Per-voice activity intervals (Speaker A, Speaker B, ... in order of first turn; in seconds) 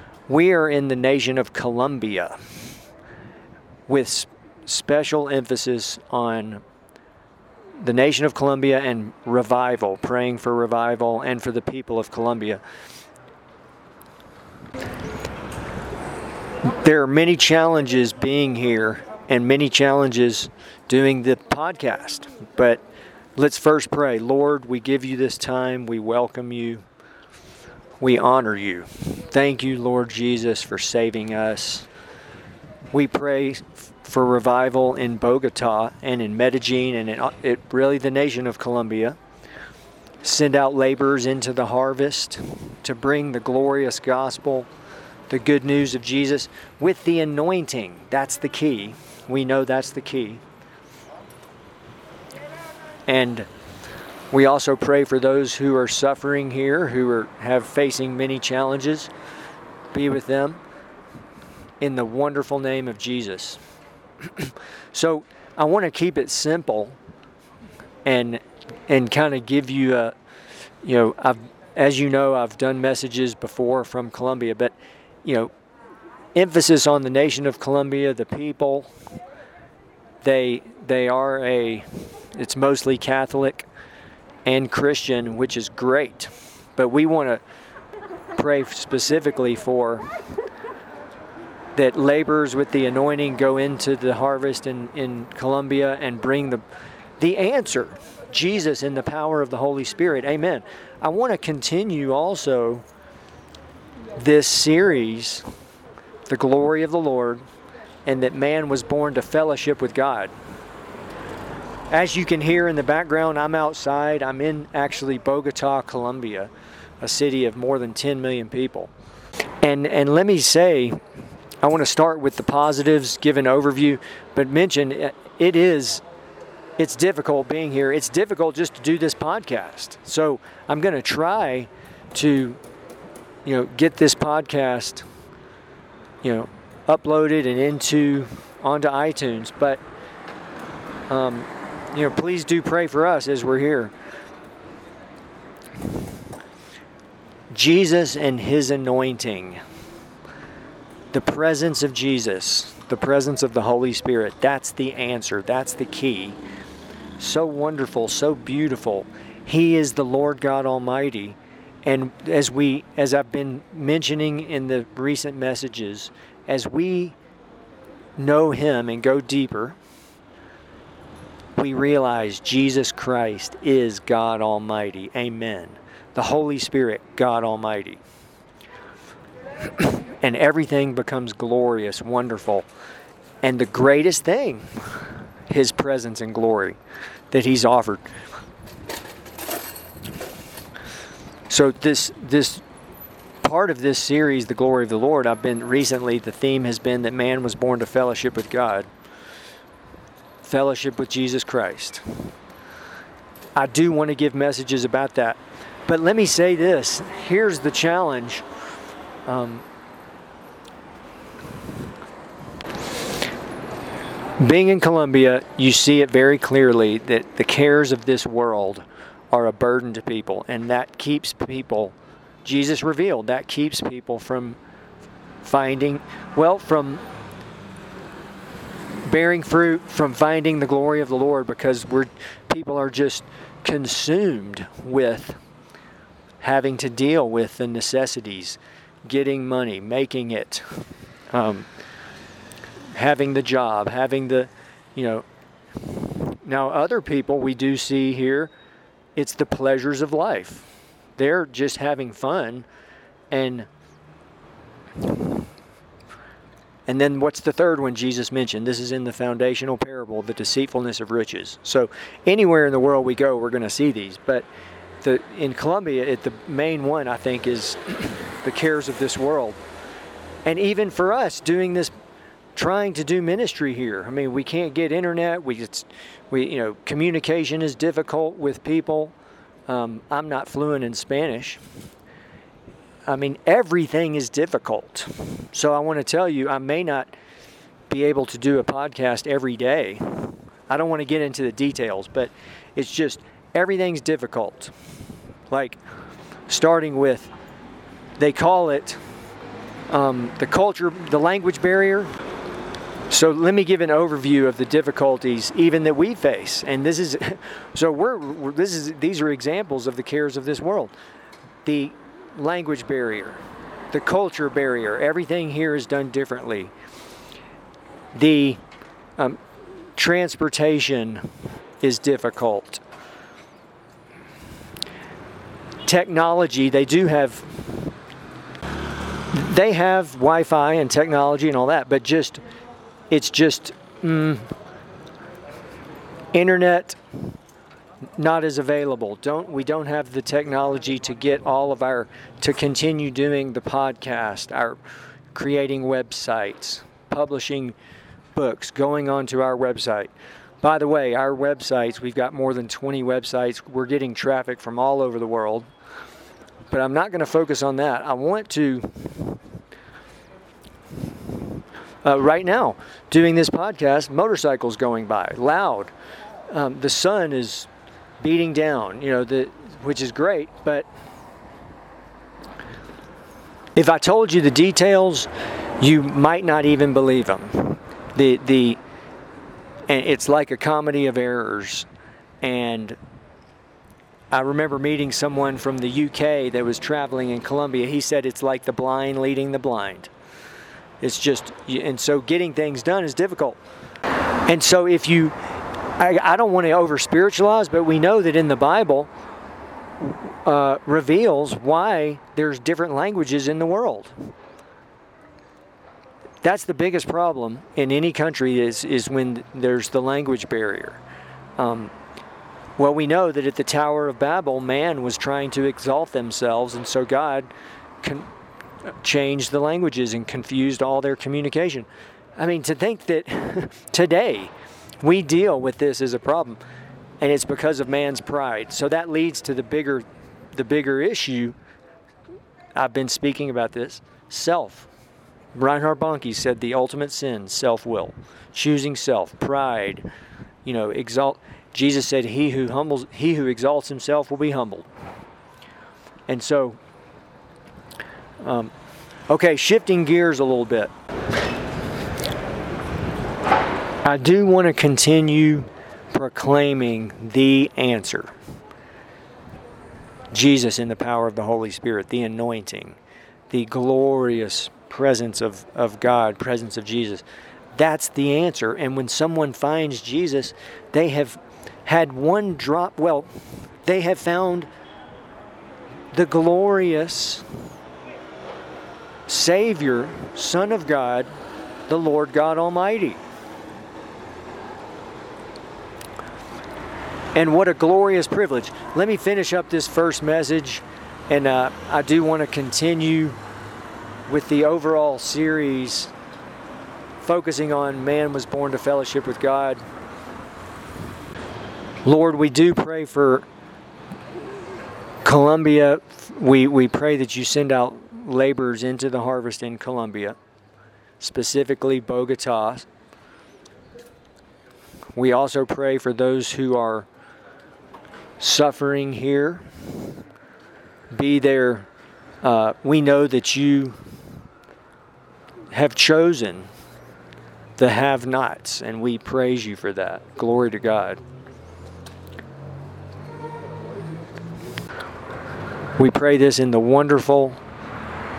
Speaker A: 0.3-2.6, 3.9-6.6, 7.8-12.6, 16.6-22.8, 23.4-26.8, 28.0-31.9, 32.9-39.2, 40.2-44.7, 45.3-50.4, 53.1-53.5, 54.3-59.1, 59.9-60.6, 61.8-63.6, 64.2-67.0, 68.0-70.1, 70.8-75.5, 76.3-78.9, 80.2-83.7, 84.4-87.4, 88.3-90.1, 91.7-96.6, 97.2-102.8, 104.1-105.5, 106.3-107.4, 108.0-110.3, 111.9-118.9, 119.6-121.0, 121.6-126.0, 126.8-132.6, 133.4-135.0, 136.2-139.8, 141.1-143.9, 147.5-149.6, 151.1-156.4, 157.2-167.2, 168.2-169.8, 171.6-178.0, 179.8-182.7, 183.4-186.8, 187.3-188.0, 191.5-192.6, 193.4-198.9, 200.4-202.3, 203.6-208.4, 209.3-209.6, 214.4-224.6, 225.4-227.0, 229.0-235.4, 236.4-241.7, 242.9-248.5, 249.2-252.7, 253.3-253.7, 256.9-264.5, 265.0-269.6, 270.4-271.9, 272.5-279.1, 279.7-281.6, 283.1-287.1, 287.9-294.7, 295.5-295.8, 296.5-297.3, 298.2-299.0, 299.9-302.1, 303.1-310.9, 311.6-316.7, 318.1-318.6, 319.2-319.4, 319.9-321.3, 321.8-322.8, 325.8-327.9, 329.3-332.4, 333.1-334.5, 336.3-337.0, 338.1-344.8, 345.3-347.8, 348.3-355.7, 356.7-359.4, 362.0-365.9, 366.5-367.7, 368.2-370.9, 373.8-378.8, 379.9-381.9, 382.4-383.0, 384.3-390.1, 391.0-393.6, 394.5-395.4, 395.9-399.1, 400.0-404.1, 406.4-411.0, 411.6-411.9, 412.8-418.3, 418.9-426.6, 427.2-431.6, 432.8-434.9, 435.5-440.1, 440.6-444.9, 446.3-446.8, 448.4-448.7, 449.3-450.9, 454.0-458.3, 460.3-463.0, 463.5-474.7, 476.1-477.5, 479.3-481.3, 481.9-483.2, 487.3-493.4, 494.3-496.1, 497.2-499.8, 502.0-503.4, 505.2-510.4, 511.2-512.9, 515.1-517.1, 518.4-520.0, 521.1-521.9, 522.4-524.0, 525.7-526.7, 527.8-531.2, 536.0-537.6